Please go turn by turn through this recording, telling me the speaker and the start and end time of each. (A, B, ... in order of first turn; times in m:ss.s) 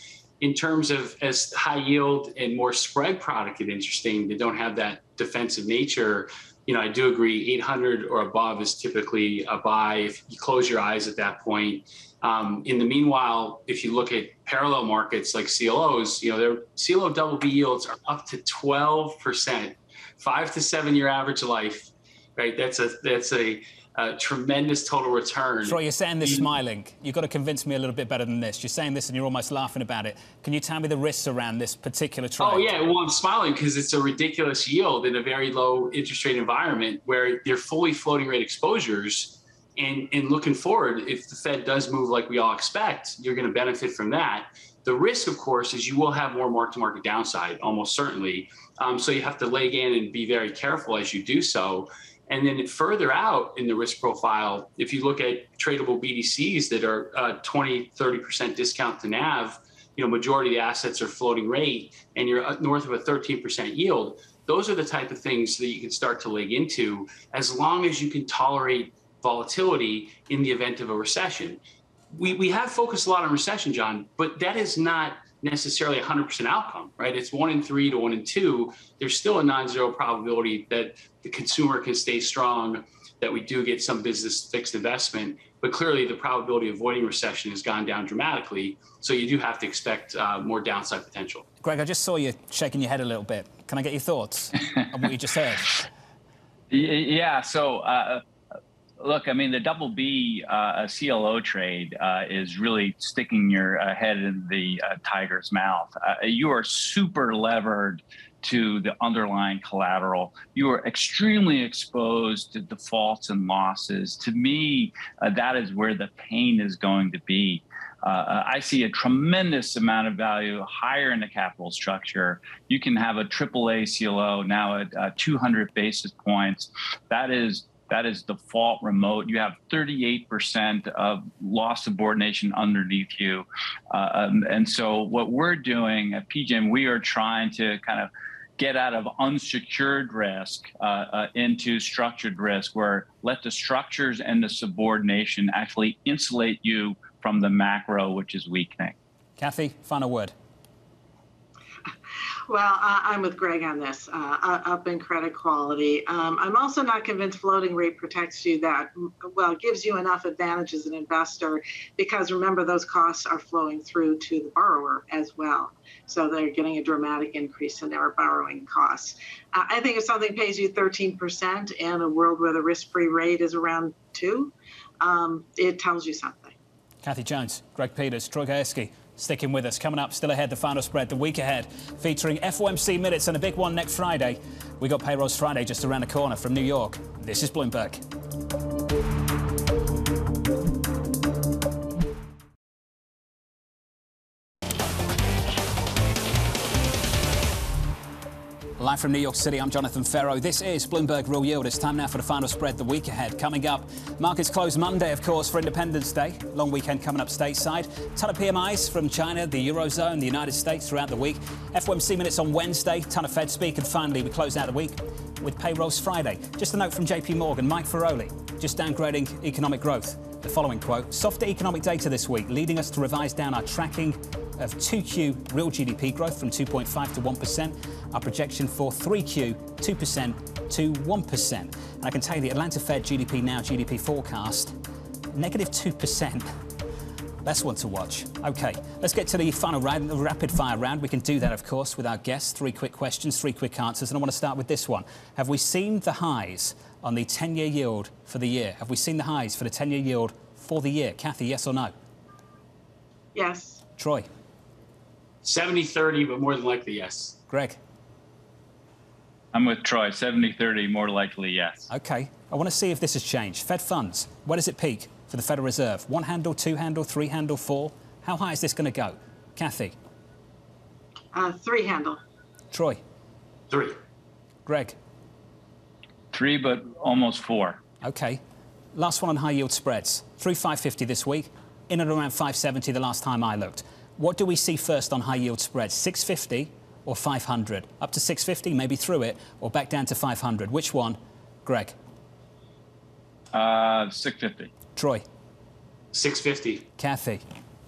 0:00.4-0:26.5 A
0:25.6-0:32.8 B
0:32.4-1:11.6 A
1:12.1-1:31.4 A
1:31.6-1:35.8 B
1:36.7-1:38.2 C
1:39.0-2:28.9 C
2:29.4-2:30.3 B
2:32.5-2:56.5 D
2:57.0-3:08.0 B
3:18.8-3:54.7 B
3:55.3-3:56.5 B
3:57.4-4:11.9 B
4:13.3-4:13.8 D
4:14.0-4:14.3 B
4:15.4-4:17.4 A
4:17.5-4:17.8 B
4:19.5-4:21.9 C
4:21.9-4:29.9 B
4:31.3-4:32.2 D
4:32.7-4:33.0 B
4:33.7-4:34.0 A
4:34.6-4:34.9 B
4:36.3-4:37.8 C
4:38.0-4:38.4 B
4:38.9-4:51.9 B
4:53.5-4:54.7 C
4:54.9-4:55.2 B
4:56.1-4:56.9 A
4:57.0-4:57.4 B